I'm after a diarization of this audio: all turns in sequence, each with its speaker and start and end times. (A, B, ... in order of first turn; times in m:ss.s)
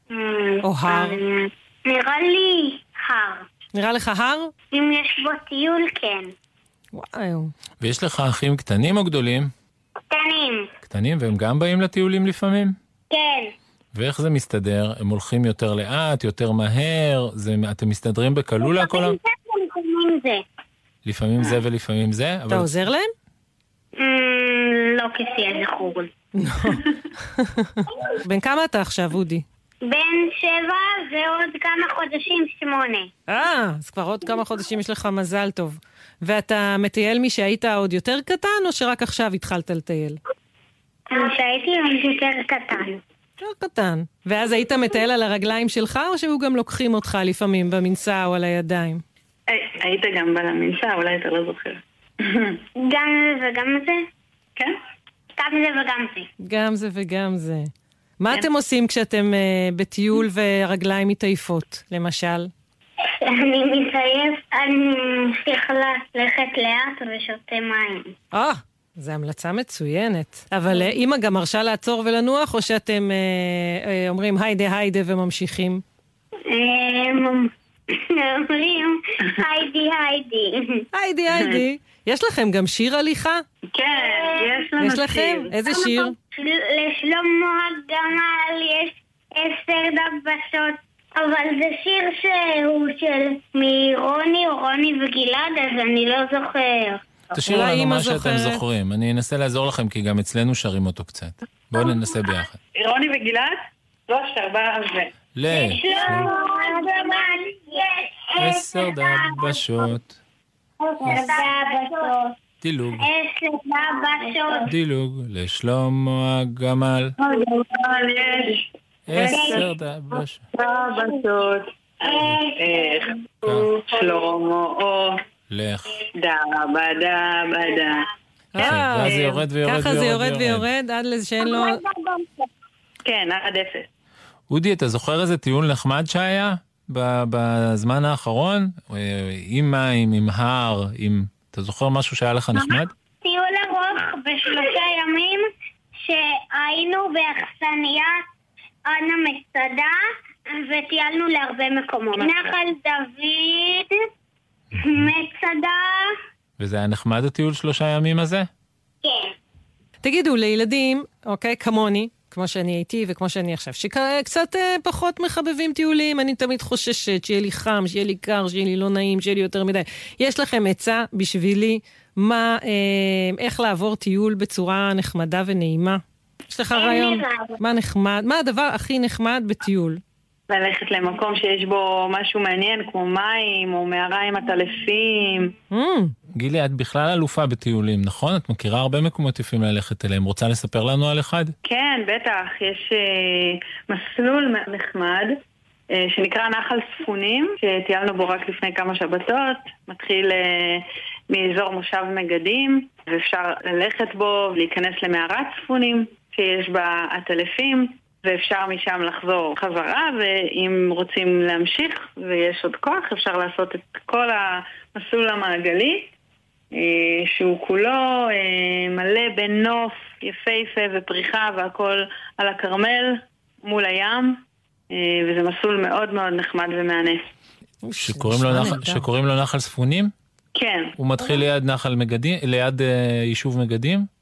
0:00.1-0:03.4 A
0:00.6-0:01.2 B
0:03.7-0:04.5 B
0:04.7-0:06.3 A
0:06.9-0:07.5 B
0:07.8-0:09.5 C
0:10.1-0:10.6 A
0:10.8-0:12.7 C
0:13.1-0:13.5 A
0:13.9-0:19.2 C
0:18.7-0:20.4 A
0:21.0-0:22.8 C
0:22.5-0:23.1 B
0:24.0-0:26.1 A
0:26.4-0:26.8 B
0:27.4-0:29.4 B
0:29.8-0:33.1 A
0:33.3-0:40.2 B
0:41.1-0:43.0 A
0:43.4-0:49.0 B
0:49.5-0:52.5 D
0:52.8-0:54.0 A
0:55.4-0:56.2 A
0:56.4-0:57.7 B
0:58.2-1:02.5 B
1:03.3-1:08.1 A
1:08.3-1:15.8 B
1:16.5-1:17.5 A
1:18.2-1:20.6 A
1:20.9-1:23.4 B
1:21.3-1:21.6 D
1:23.7-1:25.5 D
1:24.3-1:24.5 A
1:24.8-1:26.1 B
1:25.7-1:37.0 A
1:37.3-1:42.6 C
1:37.4-1:38.6 B
1:42.8-1:43.5 D
1:44.1-1:45.1 D
1:45.3-1:46.3 C
1:45.5-1:49.2 A
1:48.4-1:50.2 C
1:50.9-1:52.3 A
1:52.6-1:53.1 C
1:53.0-1:54.7 A
1:54.7-1:57.1 C
1:57.2-1:58.6 D
1:59.1-2:00.4 C
1:59.1-1:59.7 D
1:59.3-1:59.6 A
2:00.5-2:05.1 D
2:02.1-2:02.5 A
2:05.5-2:05.8 C
2:06.2-2:08.0 D
2:08.5-2:11.8 B
2:08.6-2:10.7 C
2:08.6-2:09.4 D
2:13.0-2:13.9 D
2:14.5-2:22.9 C
2:22.6-2:25.4 A
2:26.0-2:28.2 A
2:28.9-2:29.9 A
2:30.5-2:33.9 A
2:34.8-2:35.8 A
2:36.6-2:38.5 C
2:39.0-2:39.3 A
2:40.0-3:00.0 B
2:56.8-2:57.5 A
3:00.5-3:05.5 D
3:05.7-3:06.1 B
3:06.4-3:11.5 C
3:11.6-3:15.3 D
3:15.9-3:36.1 D
3:36.7-3:44.4 D
3:44.9-3:47.2 D
3:47.8-3:49.0 B
3:48.0-3:50.1 C
3:50.6-3:50.9 D
3:51.0-3:54.1 C